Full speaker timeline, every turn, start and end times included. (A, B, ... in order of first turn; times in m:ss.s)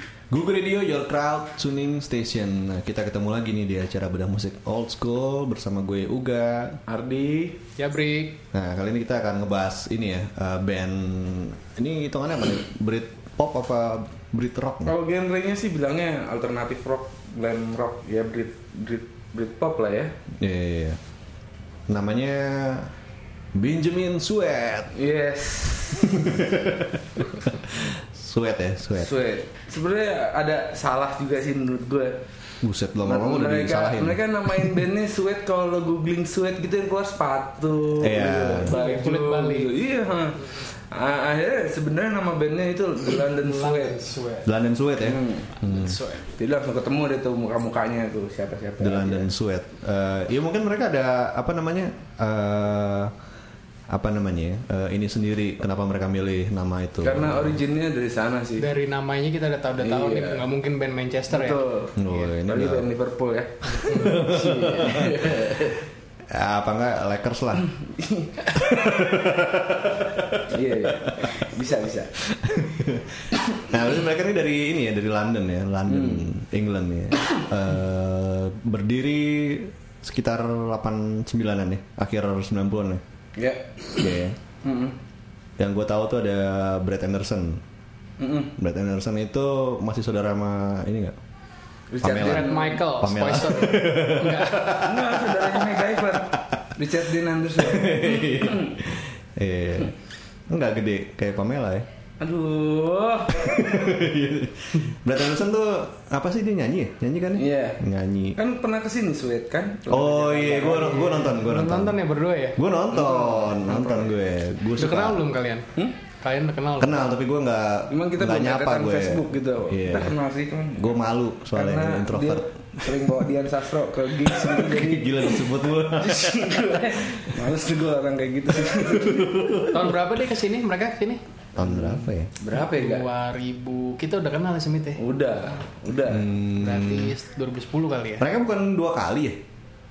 0:00.3-0:06.8 A
0:06.9-0:07.6 B
0:07.8-0:08.4 C
0:08.5-0:15.0 A
0:14.9-0:20.1 B
0:20.4-0:21.0 A
0:21.9-0:22.9 A
0:23.6-0:24.9 A
0:25.0-0:26.4 B
0:26.0-0:29.1 A
0:29.0-0:32.2 B
0:32.6-0:34.8 A
0:33.0-0:44.0 B
0:38.0-0:38.7 A
0:38.6-0:39.7 C
0:43.4-0:44.5 C
0:44.4-0:46.0 A
0:45.0-0:45.5 B
0:45.6-0:46.3 C
0:46.4-0:49.3 B
0:48.8-0:53.1 A
0:53.9-0:57.6 A
0:57.0-0:58.7 B
0:58.6-1:02.2 C
0:59.8-1:00.4 B
1:01.3-1:05.9 B
1:02.0-1:02.9 A
1:03.8-1:04.1 C
1:03.8-1:05.7 A
1:06.3-1:07.7 A
1:07.6-1:09.2 B
1:08.6-1:11.5 A
1:10.5-1:12.2 B
1:12.4-1:23.0 A
1:13.4-1:13.6 B
1:15.9-1:16.3 B
1:23.4-1:24.1 B
1:24.0-1:24.4 A
1:24.6-1:25.0 B
1:25.6-1:27.6 A
1:28.2-1:28.5 B
1:28.6-1:31.2 A
1:31.9-1:32.8 B
1:32.0-1:36.6 A
1:32.1-1:34.9 C
1:34.7-1:38.8 B
1:37.6-1:39.9 A
1:40.5-1:41.9 A
1:42.2-1:43.9 B
1:43.3-1:48.4 A
1:47.4-1:47.8 B
1:48.4-1:51.2 B
1:49.9-1:52.0 A
1:51.0-1:52.6 C
1:52.6-1:55.2 A
1:52.9-1:54.1 B
1:54.8-1:55.7 C
1:56.2-1:57.1 C
1:56.8-2:00.2 A
1:57.9-2:09.7 B
2:00.8-2:03.2 A
2:04.3-2:07.2 A
2:08.6-2:10.0 A
2:09.7-2:11.2 C
2:11.6-2:12.3 A
2:11.6-2:13.1 B
2:12.5-2:15.0 C
2:15.0-2:16.3 B
2:16.1-2:17.1 A
2:16.6-2:18.3 C
2:18.2-2:19.4 A